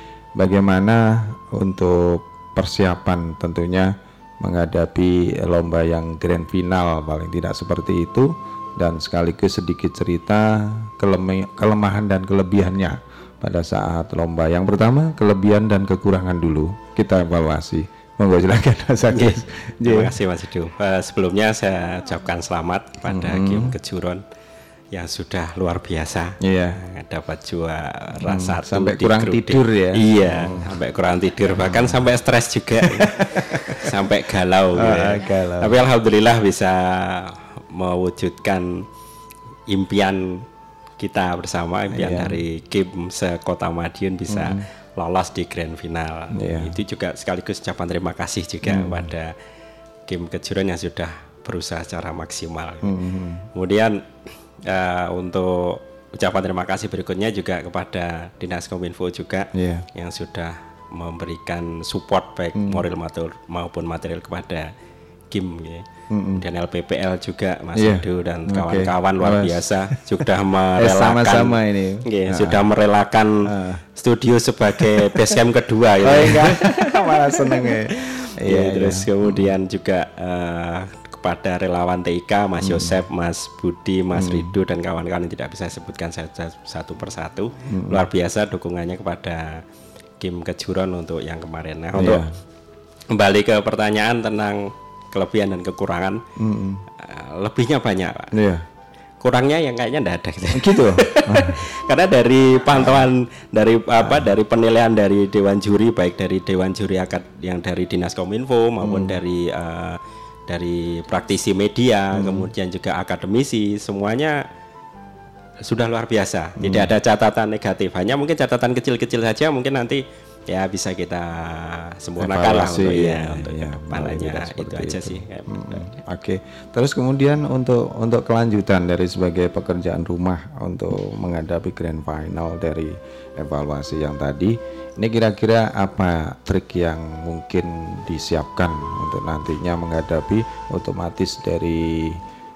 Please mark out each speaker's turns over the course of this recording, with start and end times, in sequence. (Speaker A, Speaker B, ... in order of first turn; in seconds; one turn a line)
Speaker A: 0.3-20.1
Speaker B: 19.1-24.2
Speaker A: 23.1-23.7
Speaker B: 24.9-33.1
Speaker A: 26.4-26.8
Speaker A: 28.2-30.7
Speaker A: 31.5-32.0
Speaker A: 32.8-34.0
Speaker B: 33.8-38.8
Speaker A: 34.7-35.8
Speaker B: 39.7-40.4
Speaker B: 41.0-49.3
Speaker A: 41.9-42.4
Speaker A: 44.3-44.6
Speaker A: 46.3-46.8
Speaker A: 48.6-49.1
Speaker B: 50.1-52.9
Speaker A: 52.8-53.4
Speaker B: 53.5-54.0
Speaker B: 54.7-64.7
Speaker A: 59.5-59.8
Speaker A: 62.6-62.8
Speaker B: 65.3-65.8
Speaker A: 66.1-66.4
Speaker B: 66.4-73.3
Speaker A: 67.8-70.2
Speaker A: 70.8-72.6
Speaker A: 73.5-73.8
Speaker B: 74.0-76.7
Speaker A: 74.8-75.3
Speaker A: 76.0-79.5
Speaker B: 78.4-89.6
Speaker A: 82.6-83.0
Speaker A: 84.1-84.5
Speaker A: 87.7-88.1
Speaker B: 90.2-92.2
Speaker A: 91.9-92.3
Speaker B: 93.1-94.6
Speaker B: 95.1-96.2
Speaker A: 96.4-96.8
Speaker B: 97.0-98.3
Speaker A: 98.3-98.6
Speaker B: 99.2-114.3
Speaker A: 100.5-101.6
Speaker A: 102.7-103.1
Speaker A: 104.0-104.3
Speaker A: 108.8-109.2
Speaker A: 112.1-112.5
Speaker B: 115.7-125.8
Speaker A: 116.6-116.9
Speaker A: 122.2-142.2